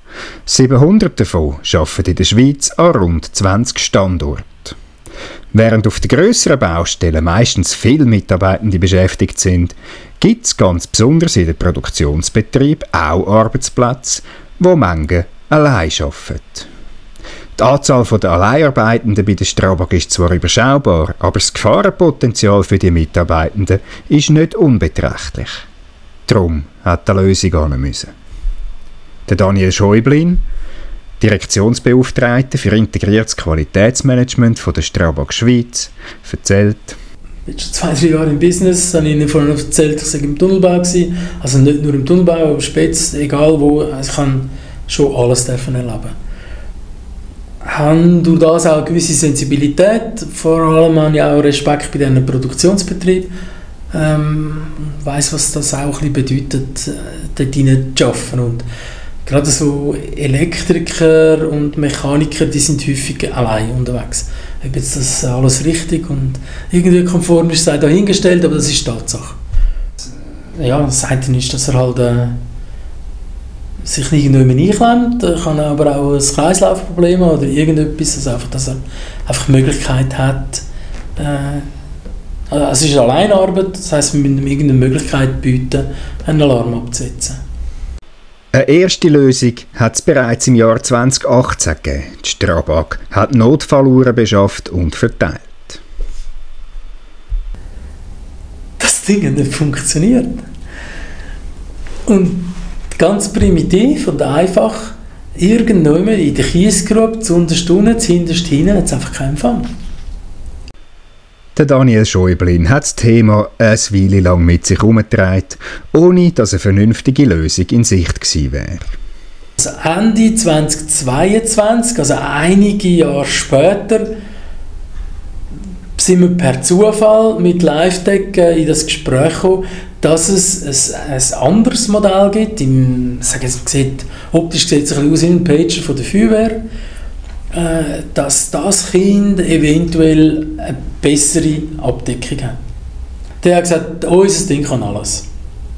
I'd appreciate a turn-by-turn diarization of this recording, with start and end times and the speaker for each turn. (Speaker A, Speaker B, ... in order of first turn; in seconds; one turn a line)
Speaker A: 0.5-4.8
Speaker A: 5.5-16.7
Speaker A: 17.6-25.6
Speaker A: 26.3-28.1
Speaker A: 29.3-30.4
Speaker A: 31.2-37.0
Speaker B: 37.5-46.1
Speaker B: 47.6-53.3
Speaker B: 53.9-58.6
Speaker B: 59.2-69.4
Speaker B: 70.5-72.4
Speaker B: 73.8-80.6
Speaker B: 81.2-81.7
Speaker B: 82.5-87.4
Speaker A: 88.5-95.8
Speaker B: 98.8-100.4
Speaker B: 102.0-109.7
Speaker A: 111.5-118.9
Speaker B: 119.6-124.1
Speaker B: 126.0-136.6
Speaker B: 137.5-142.6
Speaker B: 143.4-145.2